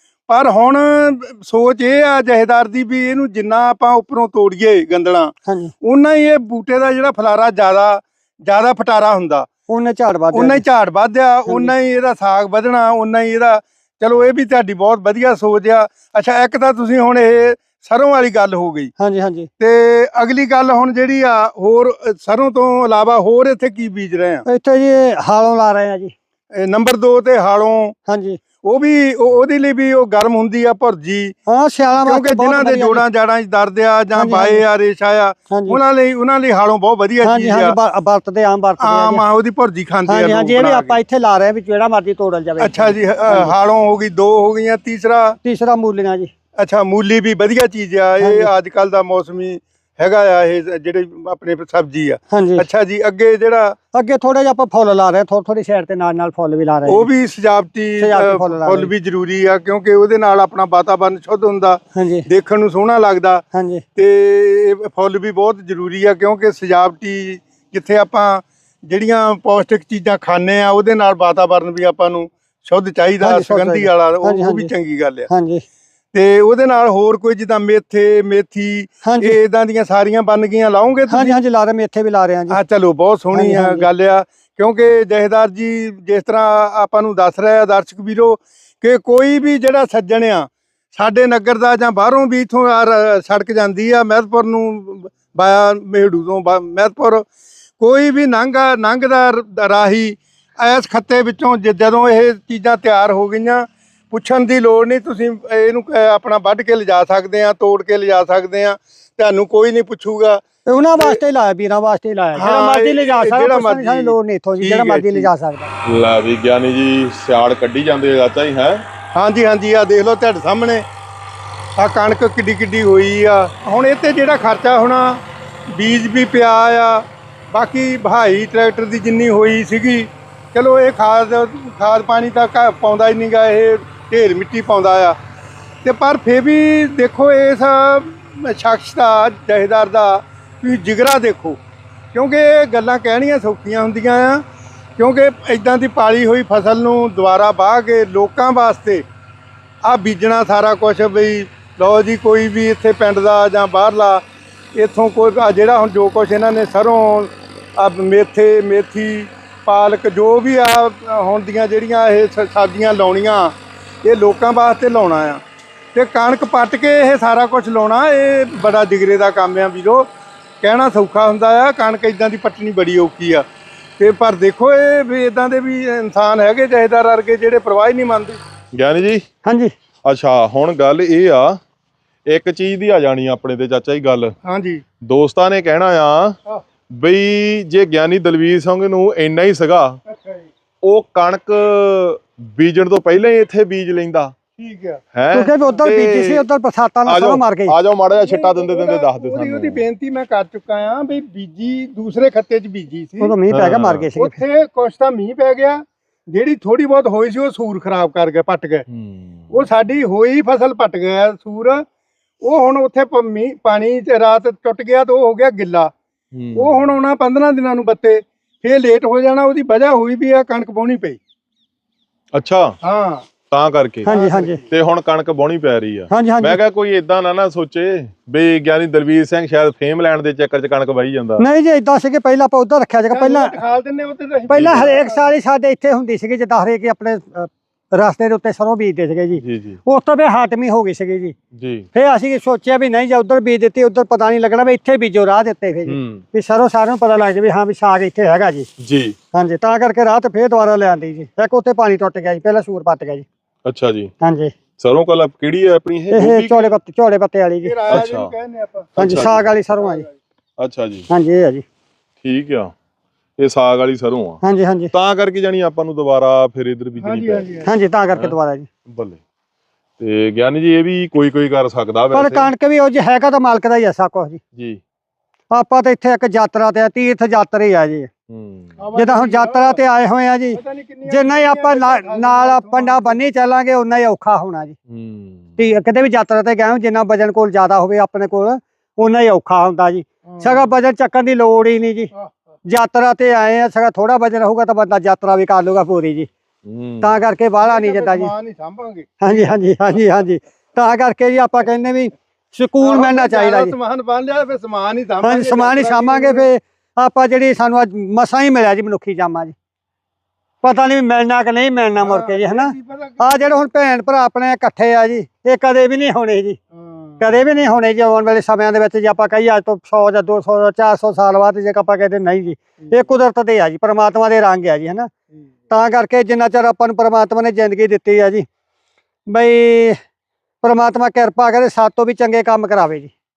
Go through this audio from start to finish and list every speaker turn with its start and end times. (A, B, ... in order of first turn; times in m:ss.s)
0:00.3-0:09.5 A
0:05.5-0:05.7 B
0:09.7-0:10.6 B
0:10.3-0:18.9 A
0:11.5-0:11.7 B
0:19.0-0:19.5 B
0:19.6-0:24.4 A
0:24.5-0:26.1 B
0:26.6-0:28.0 A
0:28.1-0:28.4 B
0:28.6-0:31.4 A
0:31.5-0:33.0 B
0:32.0-0:37.8 A
0:34.2-0:34.6 B
0:35.5-0:35.8 B
0:37.2-0:39.2 B
0:38.8-0:41.0 A
0:40.1-0:43.5 B
0:42.6-0:45.4 A
0:45.4-0:46.3 B
0:46.6-0:53.8 A
0:48.2-0:48.5 B
0:52.3-0:52.7 B
0:53.9-0:57.1 B
0:56.9-1:03.4 A
0:58.0-0:58.9 B
1:02.0-1:02.3 B
1:03.5-1:03.8 B
1:04.0-1:15.3 A
1:13.2-1:14.7 B
1:15.3-1:15.6 B
1:16.1-1:21.4 A
1:19.0-1:19.4 B
1:21.1-1:22.6 B
1:22.5-1:37.3 A
1:23.3-1:23.9 B
1:37.8-1:50.4 A
1:50.7-1:55.7 B
1:52.4-1:55.3 A
1:55.9-1:58.8 C
1:59.2-2:00.8 A
2:01.8-2:05.2 A
2:05.7-2:15.2 A
2:15.8-2:21.6 A
2:22.1-2:24.4 A
2:25.0-2:29.0 A
2:29.8-2:34.2 A
2:34.8-2:45.4 A
2:46.0-2:50.1 A
2:50.6-2:53.4 A
2:54.0-2:58.4 A
2:58.8-2:59.2 C
2:59.4-2:59.7 B
3:00.1-3:01.6 C
3:02.3-3:04.4 C
3:04.4-3:04.8 A
3:05.0-3:06.4 C
3:06.9-3:10.0 C
3:10.1-3:10.5 A
3:10.8-3:14.3 C
3:14.6-3:15.0 A
3:15.2-3:16.5 C
3:15.3-3:17.8 B
3:17.1-3:19.8 C
3:18.1-3:23.4 A
3:23.2-3:24.4 B
3:23.5-3:24.1 C
3:24.2-3:28.8 A
3:28.9-3:29.7 C
3:29.5-3:31.8 A
3:32.4-3:35.9 A
3:36.3-3:36.9 C
3:36.6-3:41.2 A
3:42.3-3:42.8 C
3:42.8-3:43.3 A
3:43.5-3:44.1 C
3:44.0-3:44.6 B
3:44.1-3:44.6 A
3:44.7-3:51.4 C
3:46.1-3:46.6 B
3:51.4-3:53.6 B
3:53.1-3:55.3 A
3:54.5-4:01.4 B
3:54.5-3:54.9 C
3:59.4-3:59.8 C
4:01.6-4:01.9 C
4:01.9-4:08.7 B
4:05.9-4:06.2 C
4:08.8-4:09.2 C
4:09.3-4:13.3 B
4:13.7-4:14.1 C
4:14.2-4:14.5 B
4:14.8-4:16.8 C
4:16.1-4:17.8 B
4:17.6-4:20.1 A
4:17.9-4:18.3 C
4:19.0-4:19.5 C
4:19.0-4:20.1 B
4:20.6-4:21.1 C
4:21.1-4:21.6 B
4:22.2-4:22.7 C
4:23.4-4:24.4 C
4:24.4-4:24.9 B
4:24.9-4:27.6 C
4:27.0-4:27.7 A
4:27.6-4:28.7 B
4:28.9-4:29.2 C
4:30.0-4:32.5 C
4:32.1-4:34.4 B
4:35.5-4:38.1 B
4:38.3-4:38.8 C
4:38.8-4:39.8 A
4:39.0-4:44.8 B
4:40.5-4:43.2 A
4:44.9-4:45.6 C
4:45.6-4:52.1 B
4:50.3-4:50.7 A
4:52.7-4:56.3 B
4:56.7-4:57.2 C
4:57.0-4:58.3 B
4:57.6-5:00.0 A
4:59.2-5:03.7 B
5:02.8-5:06.5 A
5:05.2-5:09.6 B
5:10.6-5:16.6 B
5:12.0-5:13.2 A
5:16.7-5:17.2 A
5:17.2-5:25.1 B
5:22.8-5:23.1 A
5:25.7-5:28.5 B
5:29.3-5:30.0 B
5:30.6-5:33.1 B